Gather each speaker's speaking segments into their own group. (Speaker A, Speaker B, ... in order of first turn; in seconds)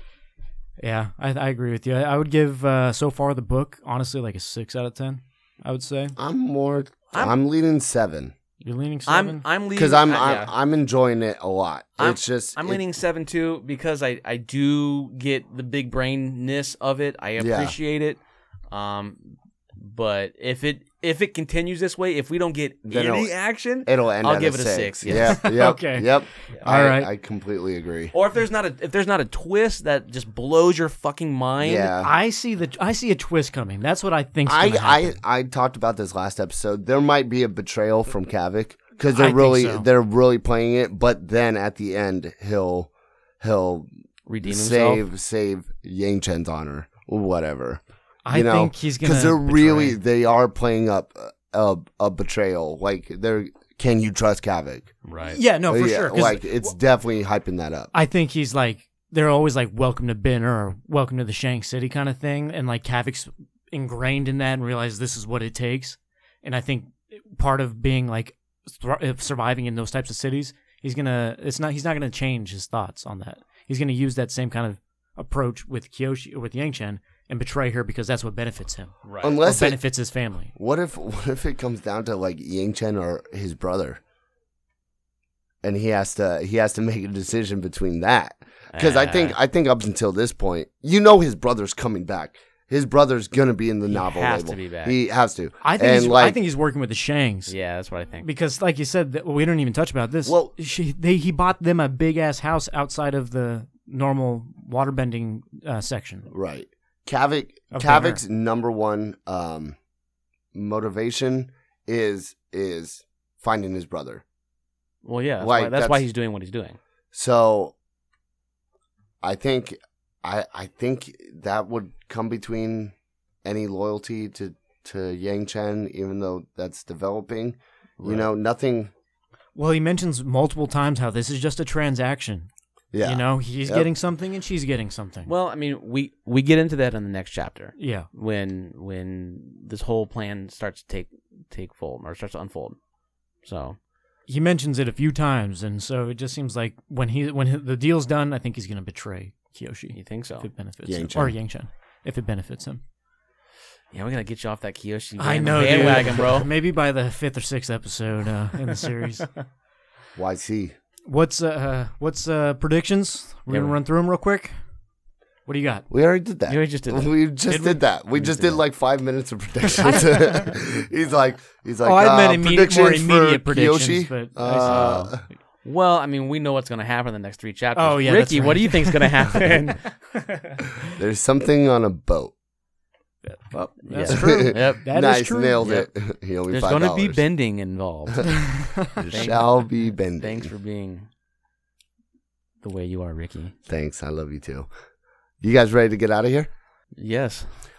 Speaker A: 0.8-6.2, 8.6-9.4, 25.1-26.1, 26.6-27.1, 32.0-35.2, 39.1-39.9, 48.2-50.0, 55.3-56.5, 57.9-80.5, 95.6-97.5, 98.2-106.3, 107.7-108.2, 129.6-132.5, 133.0-135.3, 137.8-138.1, 144.3-152.8, 155.2-159.3, 161.1-164.5, 165.5-165.9, 167.5-167.8, 169.8-170.5, 171.8-174.9, 177.8-179.7, 180.3-180.8, 183.2-185.7, 188.3-188.9
Speaker B: 6.2-8.3, 9.8-12.8, 17.4-17.8, 22.9-23.3, 23.9-28.1, 31.6-32.1, 34.5-42.9, 43.4-43.9, 44.4-54.9, 55.7-57.9, 79.2-79.8, 80.5-84.0, 85.6-96.4, 100.3-100.5, 106.3-109.8, 110.5-114.2, 115.4-116.0, 117.1-117.7, 119.2-122.9, 123.5-128.9, 132.9-133.9, 150.9-151.3, 160.2-160.8, 165.9-175.2, 180.9-182.3, 184.1-187.2, 189.0-190.5, 193.7-194.7, 195.4-196.5
Speaker C: 9.1-10.5, 12.0-18.2, 18.7-25.4, 28.1-31.9, 44.3-45.0, 55.0-55.4, 79.1-79.4, 88.7-89.4, 93.9-95.0, 97.5-98.3, 115.0-116.8, 128.0-128.3, 135.3-142.8, 143.4-143.8, 149.9-150.5, 153.9-156.5, 163.5-163.8, 166.5-167.2, 168.1-168.6, 174.6-179.8, 183.8-184.9, 185.6-185.9, 186.5-191.1, 192.6-193.6, 197.0-197.5